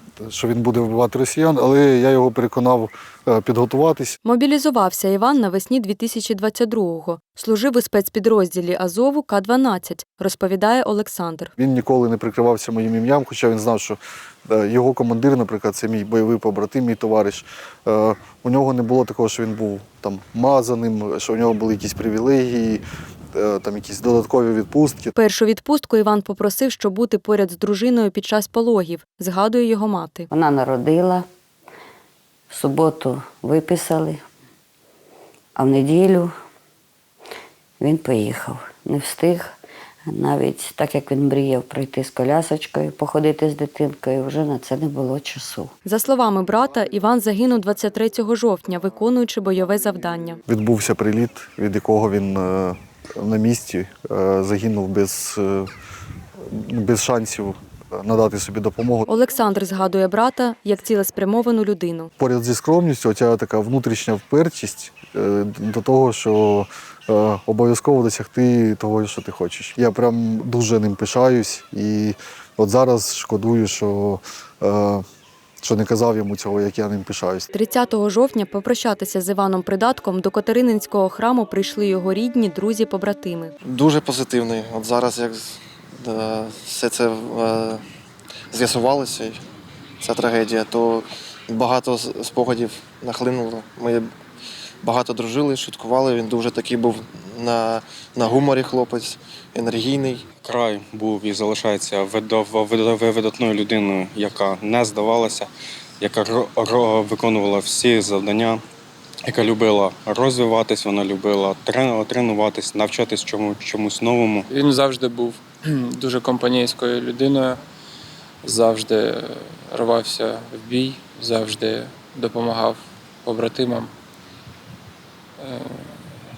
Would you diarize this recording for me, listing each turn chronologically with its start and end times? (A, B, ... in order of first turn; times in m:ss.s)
0:00.2-0:04.2 A
0:04.2-0:11.5 B
0:11.6-0:22.8 A
0:23.3-0:25.1 A
0:25.2-0:30.3 B
0:30.3-0:31.3 C
0:32.5-0:34.2 C
0:35.6-0:36.3 C
0:37.8-0:39.5 C
0:40.1-0:45.7 C
0:45.8-0:50.4 B
0:50.5-0:55.7 A
0:56.4-0:59.1 A
0:59.1-1:02.1 B
1:02.2-1:15.0 A
1:15.6-1:17.5 A
1:17.5-1:23.5 B
1:23.6-1:27.8 D
1:28.5-1:29.4 D
1:30.0-1:34.1 D
1:34.8-1:40.2 D
1:40.4-1:45.5 E
1:46.0-1:48.6 E
1:49.3-1:54.5 E
1:54.5-1:57.6 F
1:58.4-2:03.9 F
2:05.4-2:05.9 F